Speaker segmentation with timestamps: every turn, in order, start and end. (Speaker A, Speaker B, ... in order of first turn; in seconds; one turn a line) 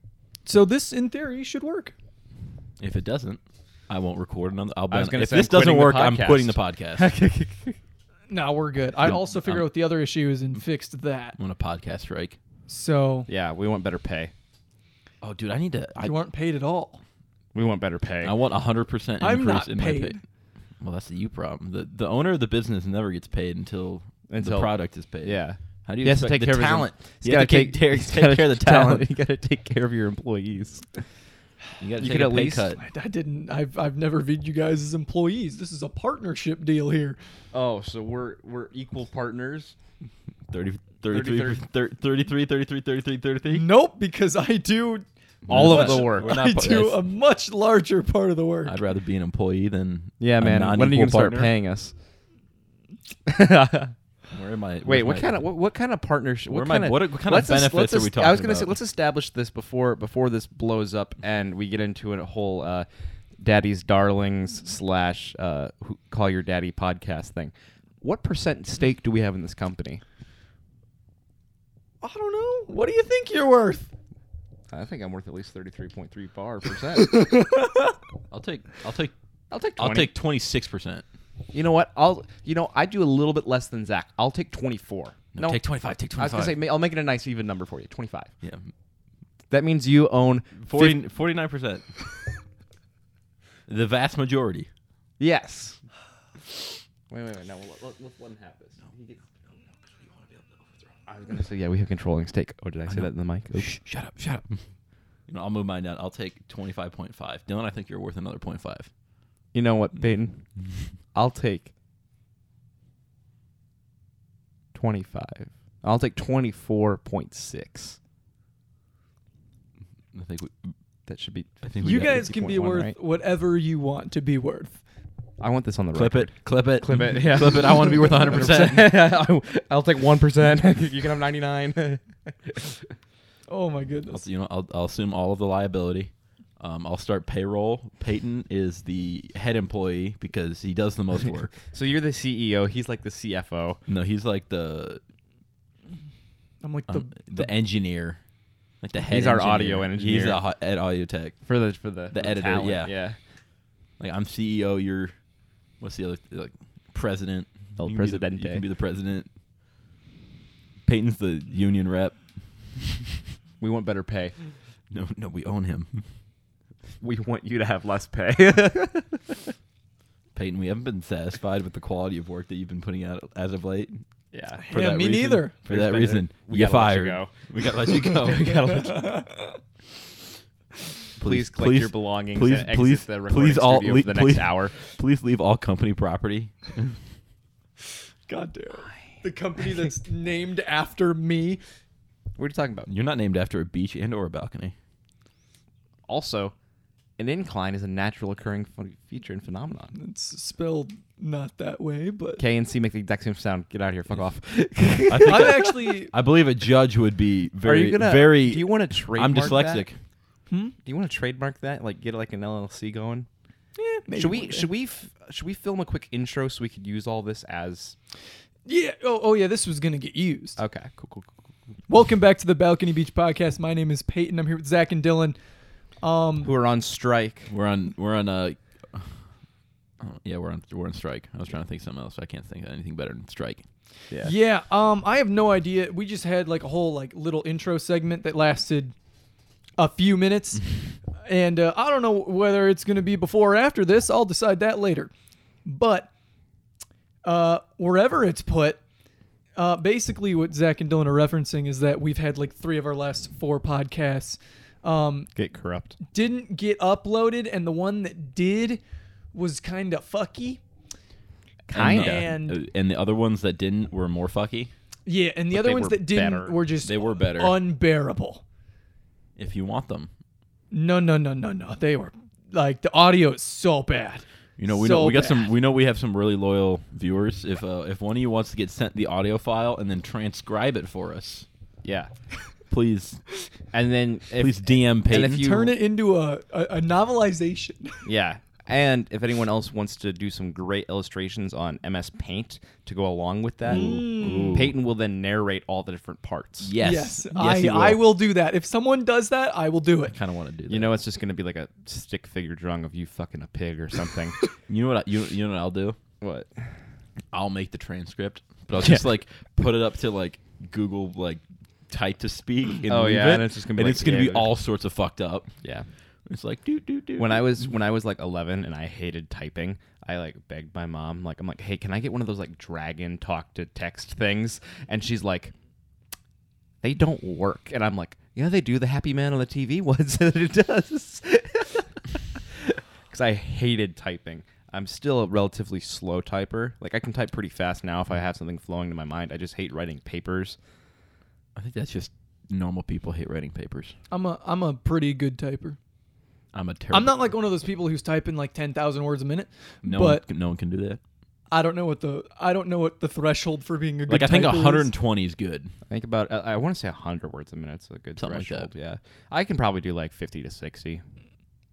Speaker A: 0.5-1.9
Speaker B: 2.8-7.1
Speaker C: 4.9-7.8
Speaker A: 8.3-11.3
Speaker B: 9.0-9.7
Speaker B: 11.3-12.4
Speaker A: 12.7-13.3
Speaker C: 13.3-14.3
Speaker B: 15.2-16.1
Speaker A: 16.0-17.0
Speaker C: 17.5-18.3
Speaker B: 18.2-20.2
Speaker A: 19.2-20.2
Speaker B: 20.8-29.0
Speaker C: 24.3-31.0
Speaker B: 31.8-32.8
Speaker C: 32.0-32.7
Speaker A: 32.8-37.2
Speaker C: 37.5-39.8
Speaker B: 40.5-43.7
Speaker C: 41.1-41.6
Speaker A: 43.5-48.8
Speaker C: 45.5-46.3
Speaker B: 45.5-47.0
Speaker B: 48.6-51.5
Speaker C: 50.2-51.9
Speaker C: 53.2-53.9
Speaker B: 54.3-55.4
Speaker C: 54.8-62.9
Speaker B: 56.5-58.7
Speaker C: 63.4-70.0
Speaker A: 72.0-73.9
Speaker C: 74.7-77.2
Speaker A: 77.0-77.8
Speaker B: 78.3-79.1
Speaker C: 79.5-80.1
Speaker B: 79.8-81.0
Speaker C: 81.5-85.6
Speaker B: 85.3-86.6
Speaker C: 86.2-88.3
Speaker C: 89.5-91.0
Speaker B: 90.6-91.9
Speaker B: 93.7-94.7
Speaker C: 95.2-95.8
Speaker C: 97.1-99.2
Speaker C: 101.1-103.7
Speaker B: 102.9-104.6
Speaker B: 105.3-108.9
Speaker C: 109.5-110.5
Speaker C: 111.1-111.7
Speaker C: 114.7-118.0
Speaker B: 120.1-120.5
Speaker C: 121.1-122.9
Speaker B: 121.6-122.2
Speaker A: 121.8-124.8
Speaker C: 125.4-132.8
Speaker B: 125.9-128.9
Speaker A: 133.5-134.2
Speaker B: 134.1-141.6
Speaker C: 141.7-143.8
Speaker B: 143.9-145.0
Speaker A: 146.6-147.5
Speaker B: 146.9-148.2
Speaker B: 148.8-151.4
Speaker C: 149.1-150.4
Speaker C: 151.4-153.2
Speaker B: 152.1-152.9
Speaker B: 154.0-155.1
Speaker B: 155.8-159.3
Speaker C: 157.8-158.6
Speaker B: 160.8-162.2
Speaker C: 163.6-164.3
Speaker B: 164.9-166.0
Speaker C: 167.0-169.5
Speaker B: 170.3-174.0
Speaker C: 174.3-174.6
Speaker A: 174.7-175.9
Speaker B: 174.7-178.6
Speaker C: 175.7-177.3
Speaker C: 177.9-179.2
Speaker A: 178.7-179.6
Speaker B: 181.2-187.0
Speaker C: 181.2-184.8
Speaker A: 188.3-191.6
Speaker C: 192.4-192.9
Speaker B: 192.9-194.7
Speaker C: 196.1-196.5
Speaker C: 197.2-199.9
Speaker A: 199.9-202.4
Speaker C: 202.4-205.7
Speaker B: 205.1-209.9
Speaker A: 205.2-206.1
Speaker C: 207.6-209.8
Speaker A: 210.5-210.7
Speaker C: 210.8-213.3
Speaker A: 213.8-214.7
Speaker C: 214.2-217.9
Speaker A: 218.7-220.6
Speaker C: 220.6-221.3
Speaker A: 221.9-225.3
Speaker A: 226.0-226.5
Speaker C: 226.4-227.5
Speaker B: 227.5-229.2
Speaker B: 230.0-233.6
Speaker A: 234.2-238.9
Speaker A: 239.8-240.6
Speaker A: 241.2-245.1
Speaker A: 245.6-246.1
Speaker A: 247.2-248.8
Speaker A: 249.6-255.3
Speaker C: 255.3-255.9
Speaker A: 256.1-258.8
Speaker A: 259.3-260.6
Speaker C: 261.7-262.3
Speaker B: 261.7-264.7
Speaker A: 261.9-262.6
Speaker A: 265.1-268.4
Speaker C: 265.5-266.6
Speaker B: 266.8-267.6
Speaker B: 269.4-270.1
Speaker A: 270.7-275.4
Speaker B: 274.6-281.5
Speaker C: 281.8-282.1
Speaker B: 282.7-283.2
Speaker C: 283.7-285.7
Speaker B: 284.4-285.5
Speaker A: 285.3-288.0
Speaker C: 288.0-294.0
Speaker A: 293.7-294.7
Speaker B: 293.7-294.8
Speaker C: 294.5-296.7
Speaker B: 296.6-298.0
Speaker A: 296.8-300.1
Speaker B: 300.1-300.9
Speaker C: 300.7-304.4
Speaker B: 304.7-306.0
Speaker C: 306.2-306.6
Speaker B: 307.3-315.5
Speaker C: 308.8-309.0
Speaker C: 312.9-314.5
Speaker B: 316.2-317.5
Speaker C: 317.2-325.5
Speaker C: 326.8-340.6
Speaker B: 341.6-343.9
Speaker A: 344.1-345.8
Speaker B: 346.5-347.2
Speaker A: 346.9-350.2
Speaker B: 349.8-351.0
Speaker A: 351.5-354.9
Speaker B: 354.1-355.7
Speaker C: 355.9-361.0
Speaker B: 358.2-358.7